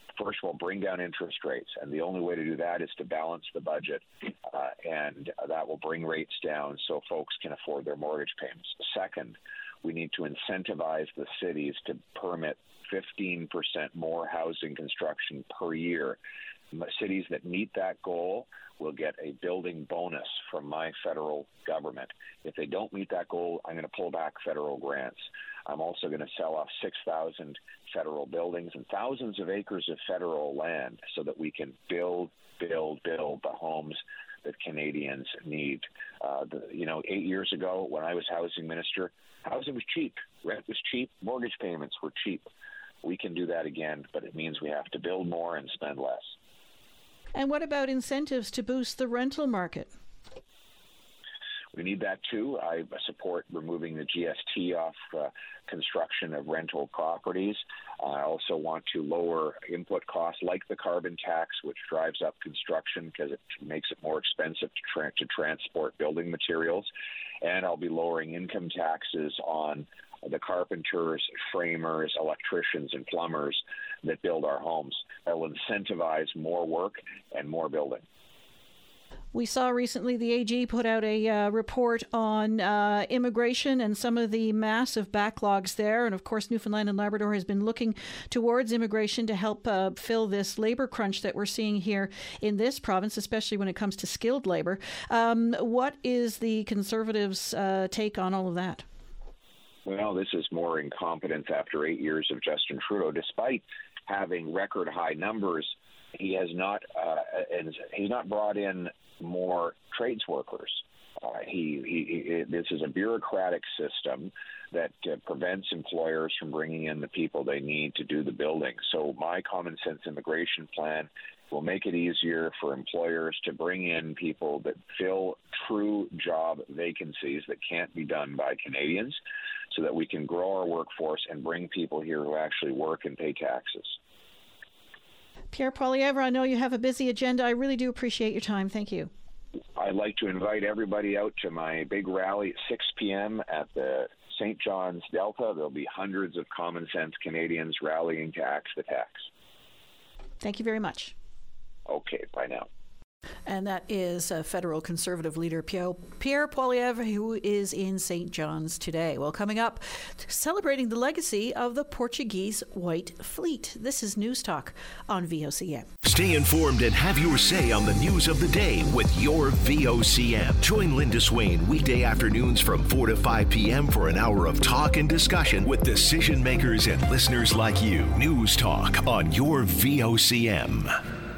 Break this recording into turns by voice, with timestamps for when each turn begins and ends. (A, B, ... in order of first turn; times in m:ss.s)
0:00.2-0:16.2 A
0:16.7-0:42.5 A
0:43.0-0:46.4 A
0:47.4-0:49.9 B
0:51.7-1:06.9 A
1:07.4-1:18.0 A
1:19.3-1:38.8 B
1:39.8-2:09.2 A
2:09.7-2:14.0 A
2:15.5-2:19.1 B
2:19.8-2:29.3 A
2:30.4-2:31.2 B
2:31.9-2:32.7 A
2:33.5-2:45.9 B
2:46.0-3:01.0 C